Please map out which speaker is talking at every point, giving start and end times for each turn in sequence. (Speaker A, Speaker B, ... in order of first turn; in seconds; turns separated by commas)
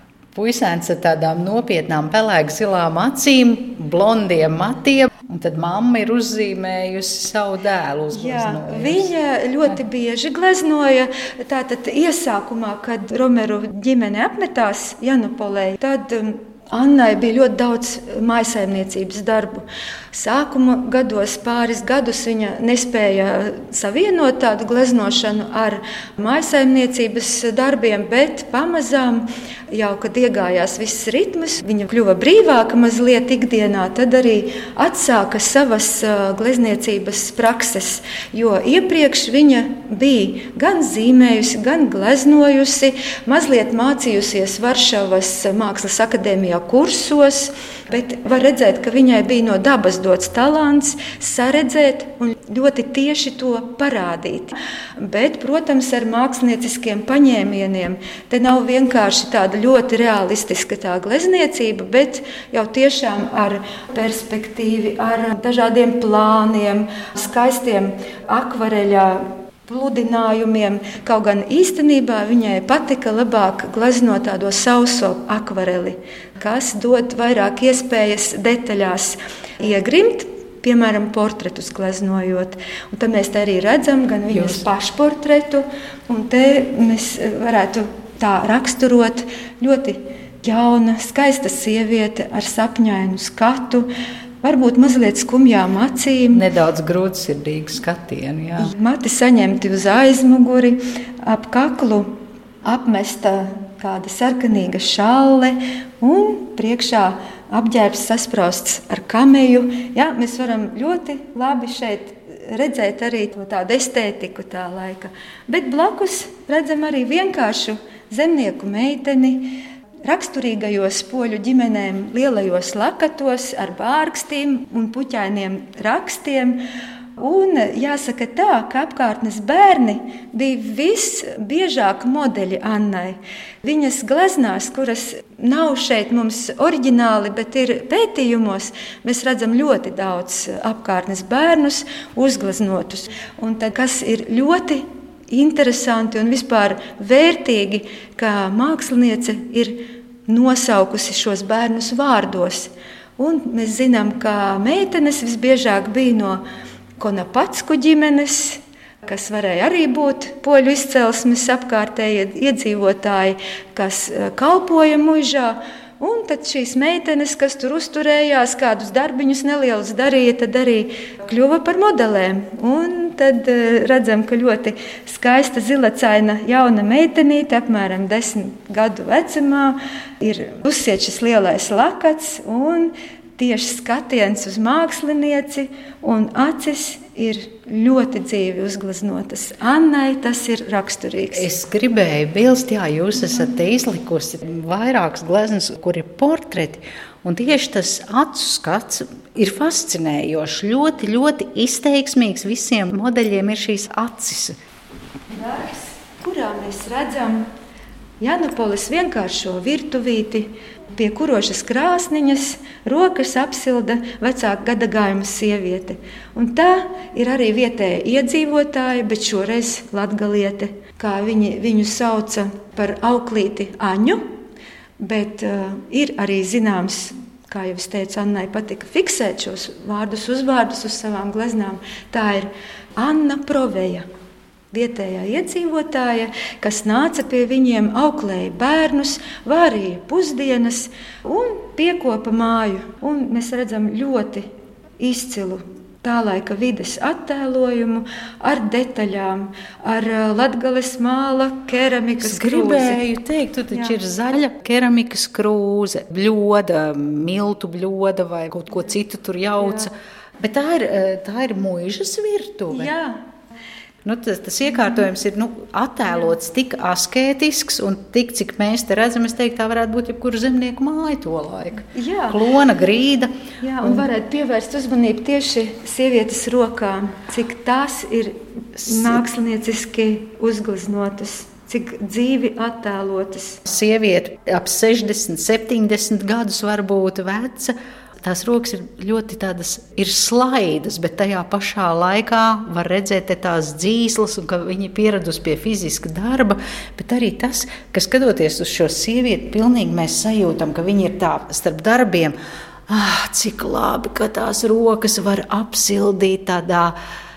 Speaker A: 0.3-9.1, Speaker B: 8.1-93.9, Speaker A: 84.3-84.7, Speaker B: 94.4-96.4, Speaker A: 96.3-98.7, Speaker B: 98.6-126.6, Speaker B: 127.2-156.4, Speaker B: 157.0-191.5, Speaker A: 191.3-204.6, Speaker B: 205.3-207.5, Speaker B: 208.2-224.2, Speaker B: 225.0-234.1, Speaker B: 234.7-244.5, Speaker B: 245.0-253.0, Speaker A: 252.2-262.9, Speaker B: 253.7-254.0, Speaker B: 262.7-263.2, Speaker A: 264.0-274.1, Speaker B: 271.9-272.4, Speaker B: 273.6-283.6, Speaker A: 278.8-279.2, Speaker A: 283.7-302.4, Speaker A: 302.9-306.9